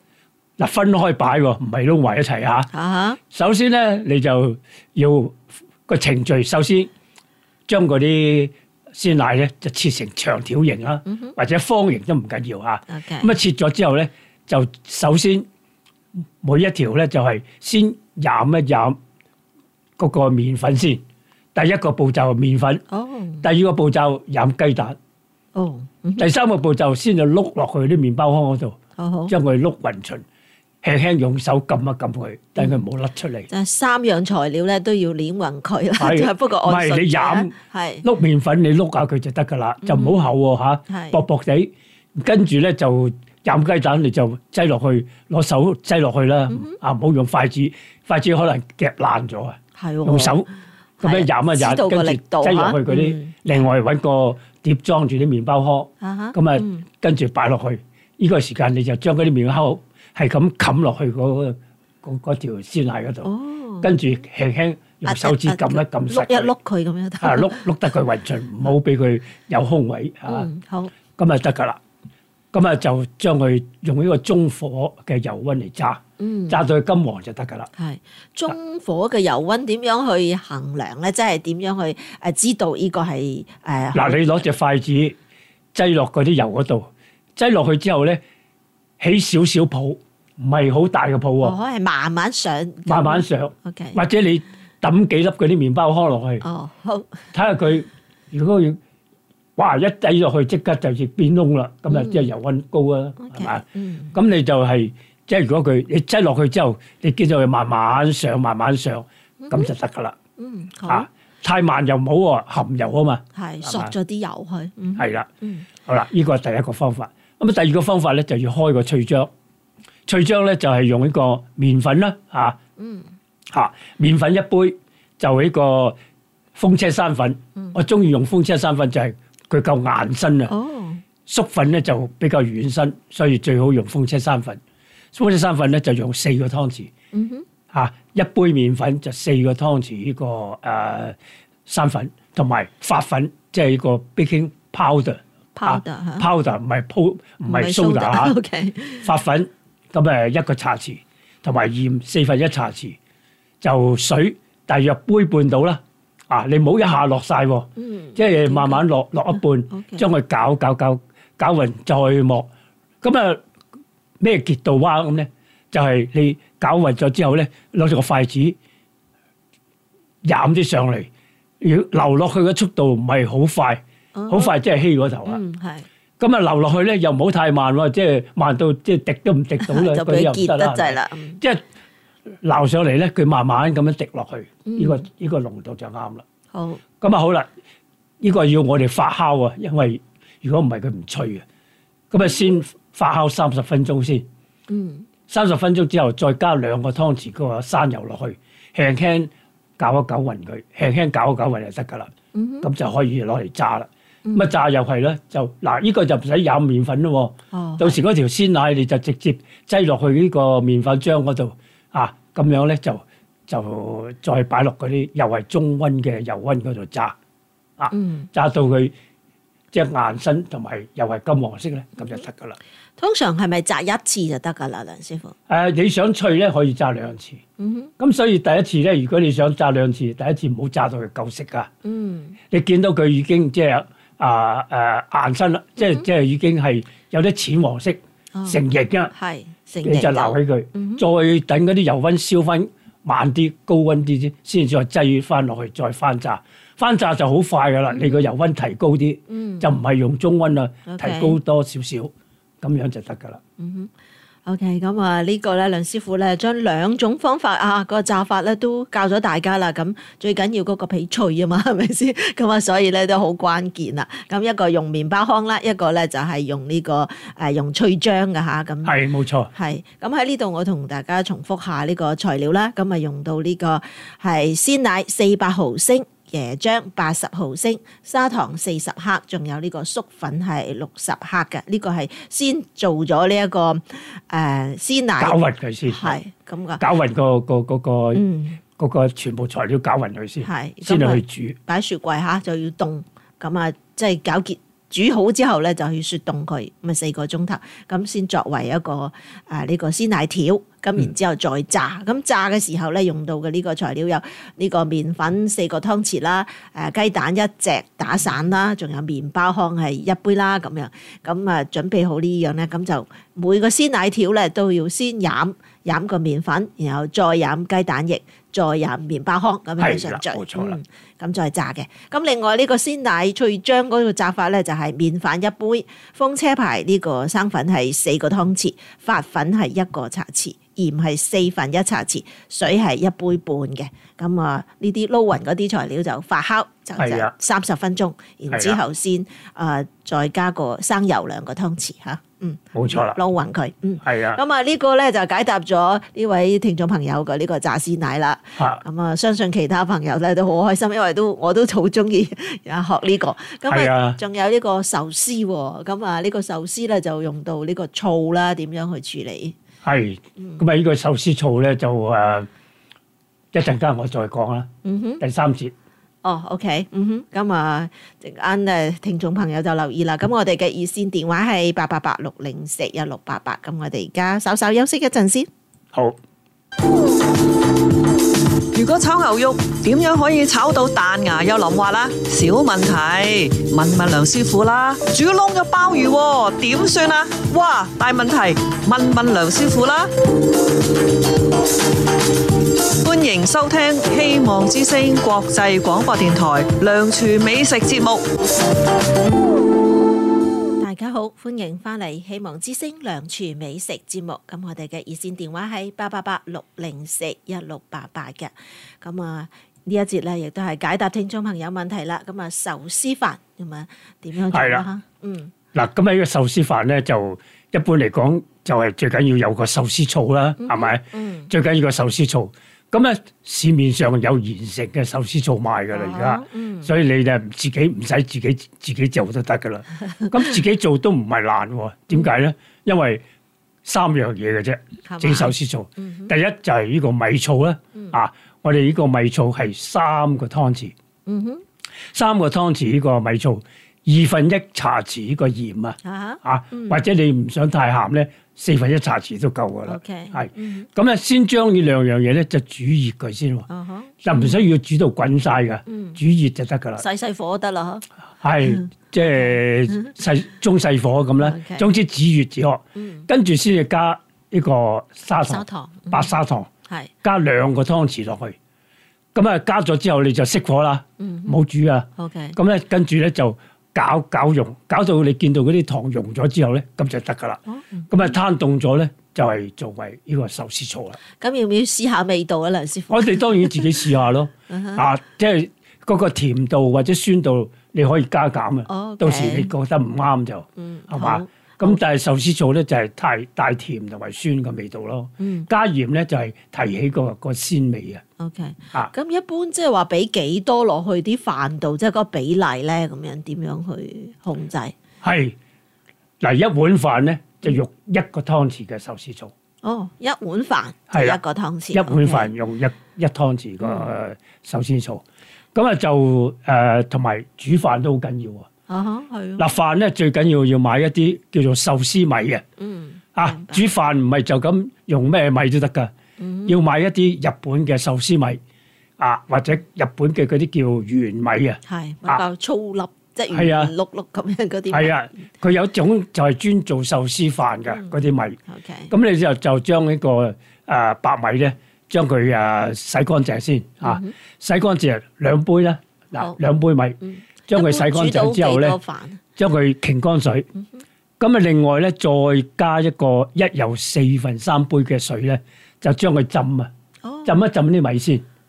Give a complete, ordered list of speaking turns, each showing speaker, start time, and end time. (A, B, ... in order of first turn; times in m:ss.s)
0:00.6-0:02.7 A
0:02.7-0:03.2 B
0:03.3-0:06.9 A
0:07.7-0:15.4 A
0:11.0-0:11.3 B
0:12.9-0:13.3 B
0:16.4-0:19.0 A
0:20.0-0:21.0 A
0:21.5-0:22.8 A
0:22.9-0:23.4 B
0:23.4-0:25.0 A
0:25.5-0:26.3 B
0:26.2-0:28.8 A
0:29.0-0:29.3 B
0:29.3-0:30.2 A
0:30.8-0:33.5 A
0:33.5-0:38.0 B
0:36.0-0:50.5 A
0:39.8-0:40.2 B
0:40.9-0:41.2 B
0:46.5-0:46.8 B
0:49.8-0:50.4 B
0:51.0-0:53.4 B
0:51.0-1:03.3 A
0:56.0-0:56.8 B
1:03.2-1:04.0 B
1:03.8-1:06.5 A
1:05.0-1:07.7 B
1:07.2-1:10.5 A
1:10.3-1:10.9 B
1:11.2-1:11.8 A
1:12.5-1:17.7 A
1:16.2-1:16.6 B
1:17.8-1:24.4 B
1:23.9-1:25.2 A
1:25.7-1:28.2 A
1:29.0-1:31.6 A
1:31.4-1:34.0 B
1:32.8-1:36.4 A
1:36.4-1:37.3 B
1:37.3-1:38.8 A
1:39.6-1:50.2 A
1:41.9-1:42.3 B
1:43.2-1:44.2 B
1:49.4-1:49.7 B
1:50.4-1:51.1 B
1:50.9-1:53.9 A
1:53.3-1:55.7 B
1:55.0-1:55.3 A
1:55.8-1:59.3 A
2:00.1-2:02.6 A
2:02.8-2:03.1 B
2:03.5-2:06.0 A
2:06.5-2:10.5 A
2:10.5-2:11.0 B
2:11.3-2:14.6 A
2:15.1-2:16.9 A
2:17.1-2:17.4 B
2:17.7-2:21.2 A
2:21.7-2:28.4 A
2:25.6-2:26.3 B
2:27.4-2:29.1 B
2:29.0-2:33.0 A
2:33.6-2:42.5 A
2:37.8-2:38.9 B
2:39.7-2:40.0 B
2:43.0-2:43.4 A
2:44.2-2:48.6 A
2:50.2-2:51.1 A
2:51.6-2:55.4 A
2:54.1-2:54.5 B
2:55.2-2:55.8 B
2:56.2-3:01.6 A
2:59.6-3:01.4 B
3:02.4-3:06.2 A
3:04.6-3:05.0 B
3:06.5-3:06.8 B
3:07.0-3:07.5 A
3:08.2-3:11.4 A
3:12.1-3:14.2 A
3:14.7-3:15.1 B
3:15.3-3:22.1 A
3:22.3-3:22.7 B
3:22.6-3:37.1 A
3:24.2-3:24.5 B
3:27.5-3:28.0 B
3:37.8-3:38.9 A
3:37.9-3:38.3 B
3:39.7-3:42.6 A
3:43.0-3:45.3 B
3:45.5-3:47.4 A
3:47.6-3:47.9 B
3:48.0-3:51.7 A
3:51.8-3:52.4 B
3:52.5-3:59.1 A
3:55.8-3:56.0 B
3:58.3-3:58.6 B
3:59.1-4:01.0 B
3:59.8-4:13.4 A
4:07.9-4:08.2 B
4:09.3-4:09.7 B
4:10.8-4:11.4 B
4:13.6-4:13.9 B
4:14.4-4:29.0 B
4:28.8-4:29.5 A
4:29.5-4:46.8 B
4:45.2-4:46.2 A
4:46.8-4:48.2 A
4:48.1-4:48.6 B
4:48.8-4:51.6 A
4:50.4-5:59.5 B
5:19.8-5:20.8 A
5:37.0-5:37.3 A
5:38.5-5:38.8 A
5:42.7-5:43.2 A
5:44.0-5:44.4 A
5:53.7-5:54.2 A
5:59.8-6:02.5 A
6:03.5-6:05.7 A
6:04.8-6:05.2 B
6:06.2-6:15.5 B
6:18.7-6:30.1 C
6:33.0-6:38.2 C
6:40.8-6:55.5 B
6:54.5-6:54.9 A
6:55.7-7:13.2 A
7:00.6-7:01.5 B
7:05.9-7:06.9 B
7:13.8-7:20.9 A
7:15.0-7:16.3 B
7:21.2-7:21.6 B
7:22.1-7:33.7 A
7:26.0-7:27.0 B
7:29.8-7:30.9 B
7:33.7-7:34.6 B
7:34.2-7:37.0 A
7:35.9-7:36.2 B
7:37.0-7:38.0 B
7:38.4-7:46.7 A
7:38.6-7:40.1 B
7:41.4-7:41.9 B
7:43.0-7:43.3 B
7:45.4-7:46.3 B
7:47.2-7:48.6 A
7:49.3-8:01.2 A
7:51.2-7:51.6 B
7:52.2-7:52.6 B
7:57.7-7:58.3 B
8:01.4-8:04.0 B
8:03.1-8:18.2 A
8:04.7-8:05.0 B
8:08.9-8:09.7 B
8:10.8-8:12.0 B
8:15.4-8:15.7 B
8:18.4-8:25.0 B
8:25.2-8:25.6 A
8:26.4-8:29.5 A
8:29.8-8:32.5 B
8:31.1-8:31.4 A
8:31.9-8:35.2 A
8:33.8-8:34.1 B
8:35.7-8:38.7 A
8:38.9-8:39.7 B
8:39.6-8:42.6 A
8:42.8-8:43.8 B
8:43.3-8:46.1 A
8:46.4-8:46.8 B
8:46.6-8:48.6 A
8:49.2-8:52.4 A
8:51.8-8:55.2 B
8:53.5-8:53.9 A
8:54.9-8:58.6 A
8:57.9-8:58.1 B
8:58.7-8:59.1 B
8:59.1-9:09.0 A
9:04.0-9:04.3 B
9:07.2-9:09.4 B
9:09.6-9:10.7 A
9:11.4-9:16.9 A
9:17.2-9:17.6 B
9:17.4-9:18.4 A